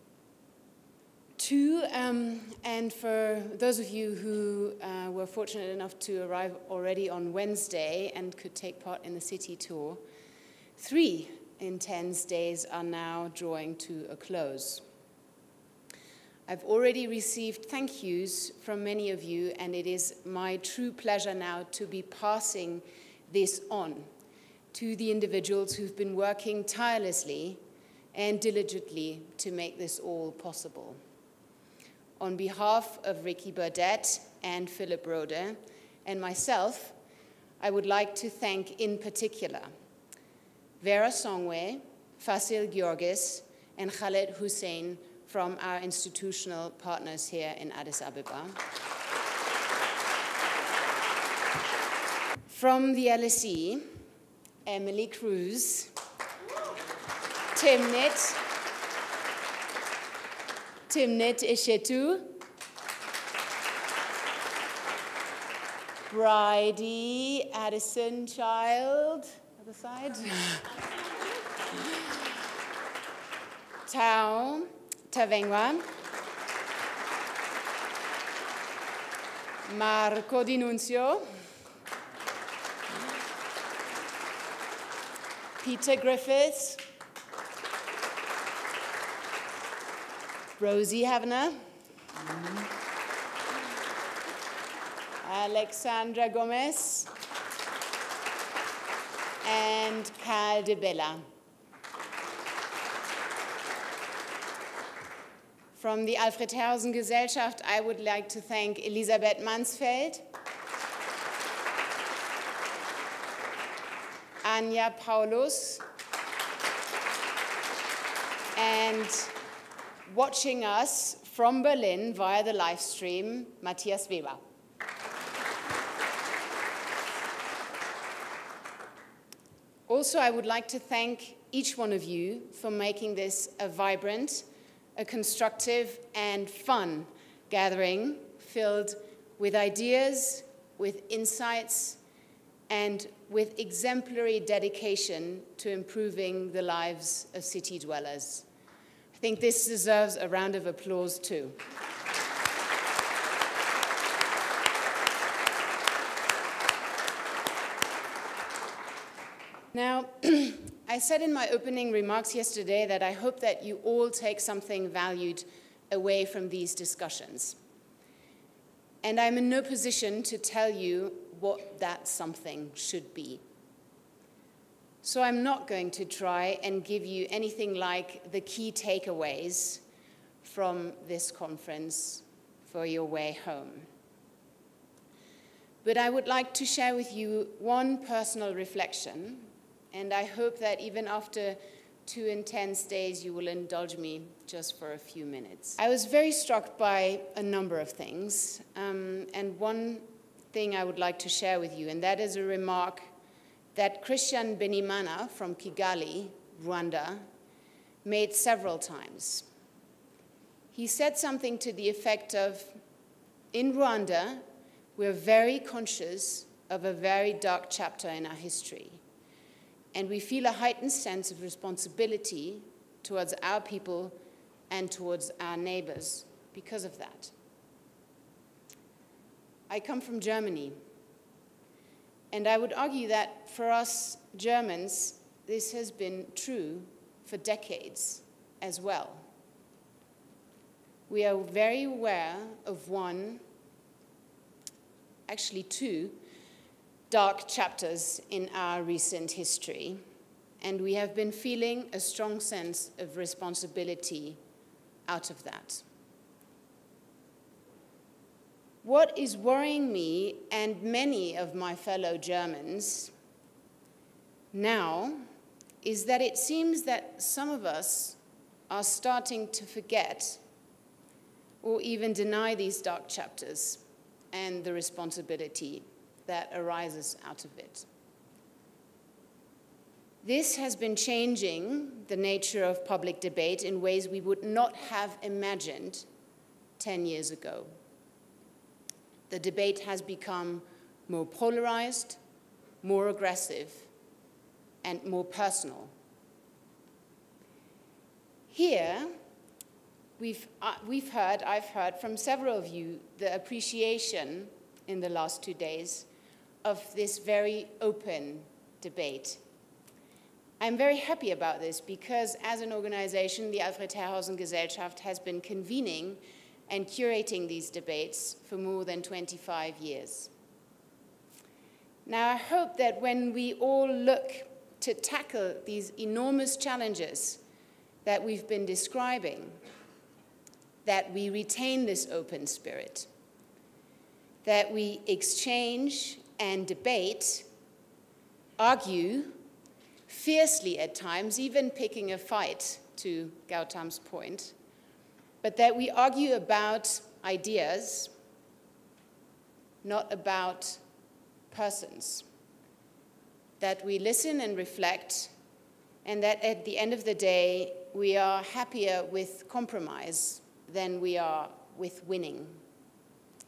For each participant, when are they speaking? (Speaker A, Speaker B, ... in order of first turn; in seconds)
Speaker A: 1.4-10.0, 10.8-14.8, 16.5-24.1, 24.7-27.6, 28.1-31.0, 32.2-37.0, 37.6-39.7, 40.8-48.6, 52.5-53.9, 54.6-55.9, 57.5-58.4, 60.9-62.4, 66.1-70.6, 73.8-75.8, 79.6-81.2, 85.6-86.8, 90.6-91.6, 95.2-97.1, 99.4-101.2, 105.7-110.2, 114.4-115.8, 118.5-119.3, 120.0-124.4, 129.9-142.0, 142.7-148.4, 149.2-151.6, 159.7-167.6, 169.0-173.4, 175.0-179.8, 180.4-183.9, 185.8-203.0, 203.7-207.2, 208.0-209.5, 210.7-212.7, 213.5-214.4, 214.9-219.0, 219.9-224.1, 224.7-227.3, 229.7-230.8, 232.3-239.2, 241.1-243.4, 245.3-246.2, 247.1-250.0, 250.6-254.4, 255.1-255.8, 258.8-263.1, 264.5-265.2, 265.8-268.2, 268.7-270.4, 271.6-277.9, 280.2-286.1, 286.8-287.7, 289.3-292.2, 292.8-293.9, 294.8-295.9, 298.5-299.1, 300.2-306.1, 306.6-309.4, 310.6-320.3, 322.1-327.4, 328.0-329.6, 330.8-333.1, 334.4-337.4, 338.6-339.4, 340.1-344.5, 345.4-348.1, 349.8-350.8, 351.5-352.2, 353.6-355.3, 356.0-362.6